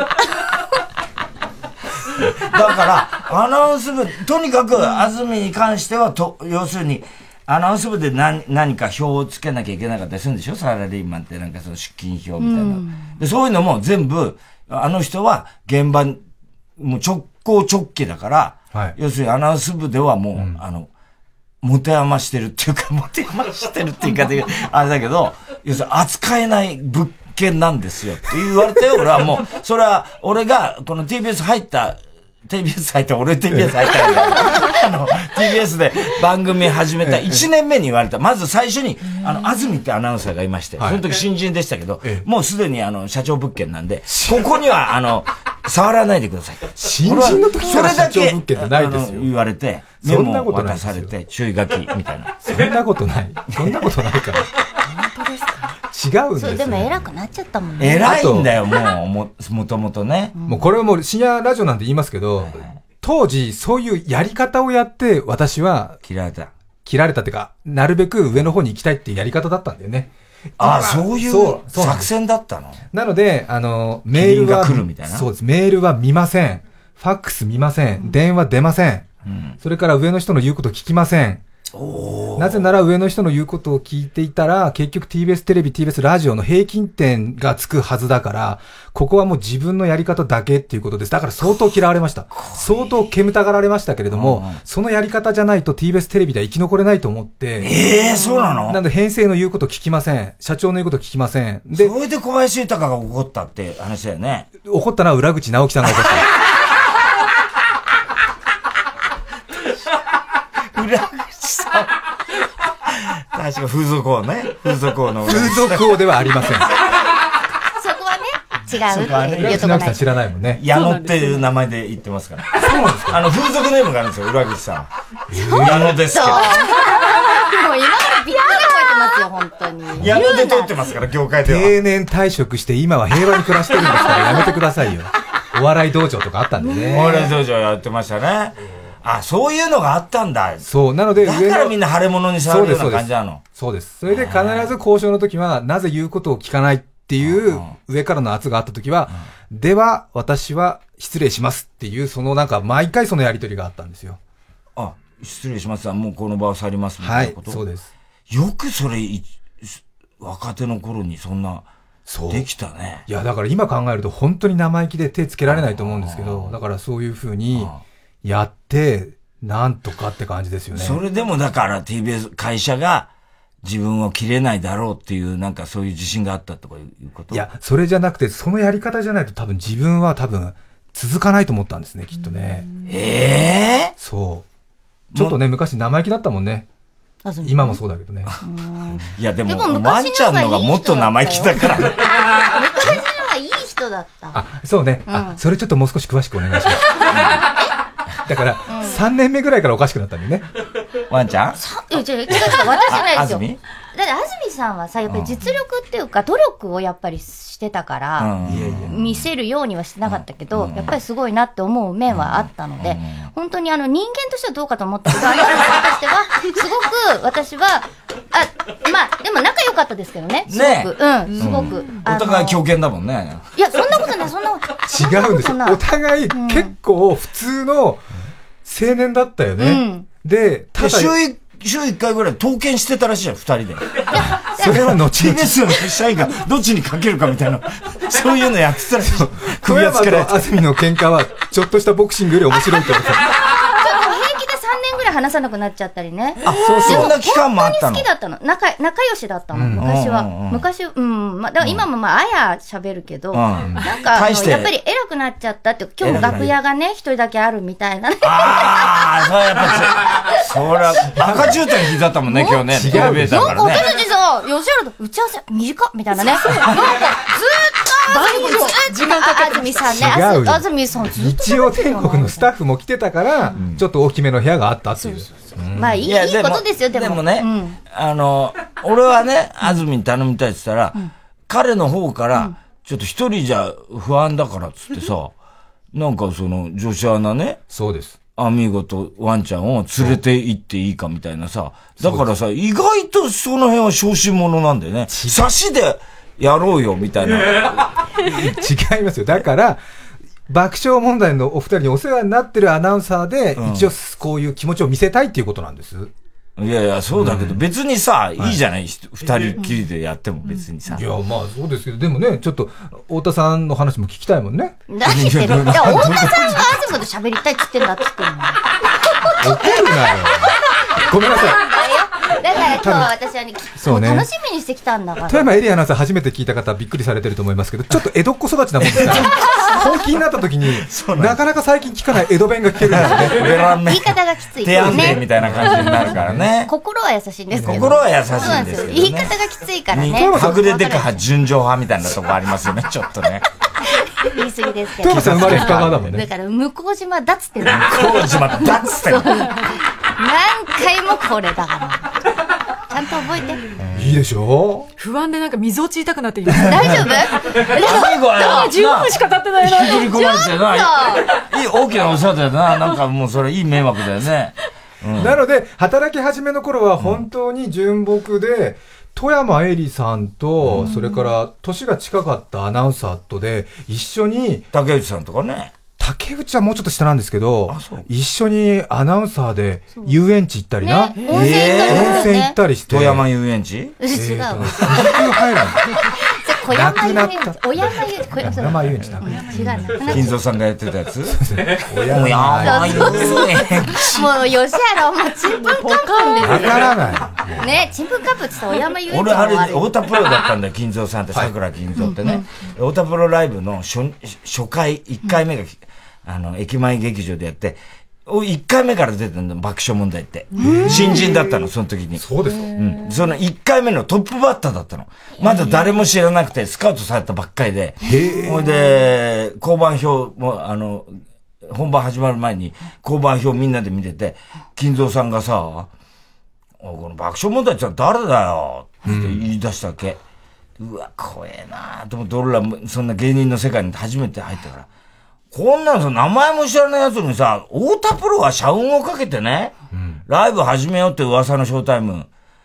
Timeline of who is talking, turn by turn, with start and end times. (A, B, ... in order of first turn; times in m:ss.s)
0:02.2-0:16.2 A
0:12.4-0:13.1 B
0:16.8-0:20.9 A
0:21.6-0:52.4 A
0:37.0-0:37.5 C
0:44.1-0:44.4 C
0:46.8-0:49.3 C
0:50.0-0:51.1 C
0:52.4-0:54.5 C
0:55.0-0:55.5 B
0:55.9-0:56.9 C
0:56.4-0:58.2 B
0:57.8-1:00.3 A
0:58.0-0:58.5 C
1:00.4-1:00.7 B
1:00.5-1:06.0 C
1:02.4-1:02.8 A
1:06.0-1:06.5 A
1:06.8-1:12.1 C
1:10.6-1:12.8 A
1:12.9-1:19.1 C
1:14.1-1:15.3 A
1:19.2-1:19.6 A
1:19.6-1:21.4 C
1:21.7-1:22.7 A
1:22.4-1:37.8 C
1:32.3-1:32.9 A
1:34.1-1:34.6 A
1:37.6-1:38.8 A
1:38.7-1:41.9 C
1:41.7-1:44.5 A
1:44.6-1:46.3 C
1:50.7-1:51.9 A
1:53.0-1:56.1 A
1:55.2-1:56.7 C
1:57.8-2:00.0 B
1:58.8-1:59.9 A
1:59.4-2:00.6 C
2:00.5-2:06.6 A
2:00.7-2:01.4 D
2:02.6-2:03.2 C
2:05.3-2:06.0 C
2:06.1-2:10.8 B
2:10.0-2:11.8 A
2:11.4-2:17.2 C
2:16.7-2:17.3 B
2:16.9-2:20.7 A
2:20.6-2:21.8 C
2:21.2-2:23.4 A
2:22.5-2:34.2 C
2:24.1-2:24.8 A
2:27.2-2:27.7 A
2:34.8-2:37.6 A
2:37.0-2:37.9 C
2:38.3-2:41.7 A
2:42.1-2:42.4 C
2:42.3-2:43.0 A
2:43.1-2:47.7 C
2:45.5-2:46.6 A
2:47.5-2:47.8 A
2:48.2-2:51.0 C
2:50.7-2:53.1 A
2:53.6-2:57.5 A
2:57.3-3:02.6 C
3:02.9-3:03.9 A
3:04.0-3:04.4 C
3:05.1-3:05.4 A
3:05.2-3:06.7 C
3:07.2-3:07.8 B
3:07.4-3:08.3 C
3:08.4-3:14.4 B
3:09.0-3:12.1 A
3:14.3-3:16.9 C
3:15.1-3:15.4 B
3:17.1-3:17.4 A
3:18.3-3:20.5 C
3:18.7-3:19.0 B
3:21.1-3:21.6 A
3:21.6-3:28.3 B
3:22.3-3:23.6 A
3:25.1-3:25.4 A
3:28.2-3:29.1 A
3:28.4-3:29.0 C
3:28.9-3:42.6 B
3:30.1-3:31.0 A
3:32.1-3:33.3 A
3:40.5-3:43.5 A
3:43.6-3:46.7 B
3:44.9-3:48.1 C
3:48.6-3:51.2 C
3:49.6-3:50.1 B
3:50.8-4:00.5 A
3:54.1-3:54.8 B
3:54.5-3:55.5 C
3:59.0-4:03.3 C
4:03.6-4:19.0 B
4:06.4-4:08.1 A
4:09.6-4:09.8 C
4:09.8-4:10.6 A
4:13.3-4:14.7 A
4:16.0-4:16.5 A
4:16.1-4:16.4 C
4:18.2-4:23.9 A
4:21.2-4:21.5 C
4:22.3-4:32.5 B
4:22.7-4:23.7 C
4:28.1-4:29.8 D
4:29.9-4:35.9 C
4:33.6-4:33.8 A
4:35.0-4:37.8 B
4:36.0-4:41.0 A
4:41.5-4:45.3 A
4:45.9-4:47.6 A
4:47.7-4:48.2 C
4:48.4-4:57.9 A
4:52.0-4:52.3 C
4:55.1-4:55.5 C
4:58.3-4:59.8 C
5:00.5-5:06.1 C
5:03.6-5:03.9 A
5:06.6-5:11.0 A
5:07.2-5:07.6 C
5:10.9-5:14.8 C
5:14.9-5:18.6 B
5:15.0-5:16.8 A
5:19.4-5:21.6 C
5:21.2-5:25.4 B
5:22.8-5:23.1 C
5:23.8-5:24.3 C
5:25.3-5:33.4 C
5:28.9-5:29.4 A
5:29.3-5:29.8 B
5:30.7-5:31.4 A
5:32.8-5:36.7 A
5:33.7-5:35.2 B
5:34.8-5:36.5 C
5:36.7-5:41.2 B
5:37.6-5:37.9 C
5:37.6-5:39.4 A
5:39.9-5:43.4 A
5:40.1-5:40.6 C
5:44.2-5:52.1 B
5:45.0-5:46.2 C
5:45.0-5:46.2 A
5:47.6-5:49.5 A
5:52.9-5:53.6 B
5:53.9-5:54.9 C
5:55.0-5:57.2 D
5:56.5-5:56.8 A
5:56.6-5:58.5 B
5:57.7-6:05.4 A
5:57.9-6:00.1 D
6:00.1-6:01.3 B
6:05.2-6:14.6 C
6:10.6-6:10.9 A
6:10.8-6:11.3 B
6:14.7-6:15.7 A
6:16.0-6:23.3 C
6:17.7-6:18.1 A
6:20.8-6:22.6 B
6:21.3-6:22.4 A
6:22.9-6:24.0 A
6:24.0-6:25.3 B
6:24.1-6:25.9 C
6:26.0-6:30.3 B
6:26.7-6:30.4 C
6:30.0-6:31.4 A
6:31.3-6:33.4 C
6:31.9-6:34.3 A
6:32.6-6:39.9 B
6:35.6-6:36.4 D
6:36.4-6:37.8 C
6:39.1-7:05.9 A
6:42.0-6:42.4 B
6:50.6-6:51.7 C
6:52.2-6:52.8 C
6:55.4-6:55.7 B
6:58.0-6:58.5 C
7:06.8-7:10.2 A
7:09.0-7:09.5 C
7:10.8-7:14.9 A
7:15.5-7:19.7 A
7:19.9-7:20.2 C
7:20.3-7:22.3 A